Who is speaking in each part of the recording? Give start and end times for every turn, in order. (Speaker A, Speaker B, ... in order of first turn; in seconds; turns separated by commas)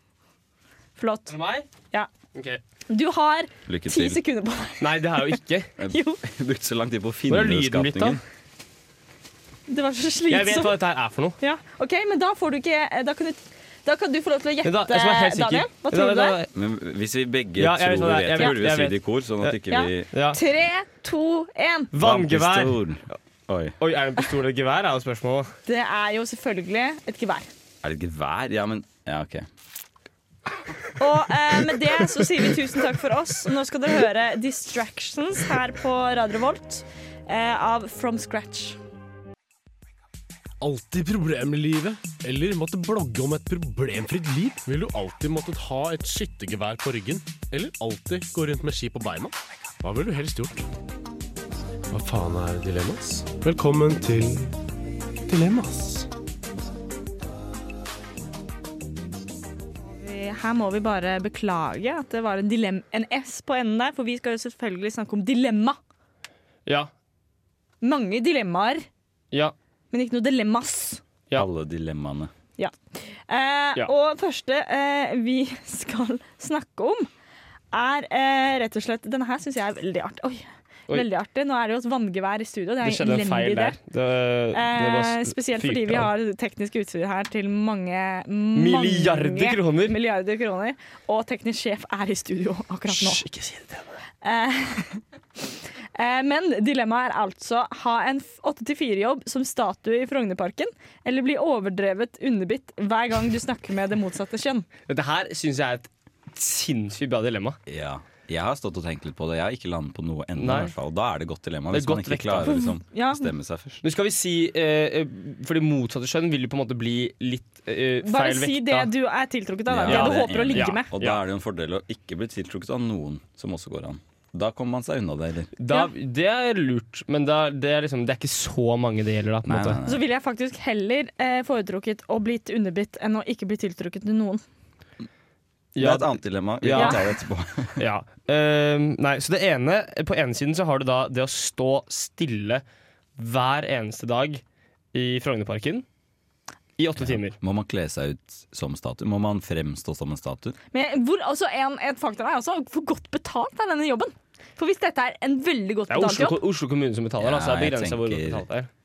Speaker A: 1.0-1.3, Speaker B: 1.3-1.7, Speaker B: 2.4-2.6, Speaker A: 2.9-5.4, Speaker C: 3.7-4.2, Speaker B: 4.8-5.7, Speaker C: 5.8-8.2, Speaker A: 5.9-6.2, Speaker B: 7.3-8.2, Speaker A: 9.7-10.8, Speaker B: 10.3-11.4, Speaker A: 11.4-16.4, Speaker B: 14.6-16.5, Speaker C: 16.5-20.1, Speaker B: 17.6-19.6, Speaker A: 19.7-21.9, Speaker B: 20.1-20.4, Speaker B: 21.9-22.8, Speaker C: 22.0-23.8, Speaker B: 23.8-25.5, Speaker A: 25.7-27.5, Speaker C: 27.8-29.5, Speaker A: 31.0-38.8, Speaker D: 40.6-50.7, Speaker D: 51.9-54.5, Speaker D: 55.3-56.1, Speaker A: 59.8-65.8, Speaker B: 66.7-66.9, Speaker A: 67.8-68.8, Speaker A: 69.9-71.0, Speaker C: 71.3-72.3, Speaker A: 72.6-77.1, Speaker A: 77.7-83.8, Speaker B: 82.8-86.1, Speaker A: 84.5-93.2, Speaker B: 88.5-90.0, Speaker B: 92.9-94.0, Speaker A: 94.2-95.0, Speaker A: 96.0-104.7, Speaker B: 104.9-107.6, Speaker C: 107.7-113.8, Speaker B: 110.4-110.7, Speaker B: 111.7-112.6, Speaker A: 112.5-113.3, Speaker B: 113.8-118.9, Speaker A: 118.0-120.9, Speaker C: 119.7-125.5, Speaker B: 119.9-121.2, Speaker B: 125.6-129.8, Speaker C: 129.4-130.1, Speaker A: 129.8-134.4, Speaker B: 135.8-137.0, Speaker C: 135.8-137.8, Speaker B: 137.8-142.6, Speaker B: 143.2-144.4, Speaker B: 144.9-145.8, Speaker B: 146.8-147.4, Speaker C: 147.0-150.6, Speaker A: 150.7-156.4, Speaker B: 155.9-158.7, Speaker C: 157.2-158.4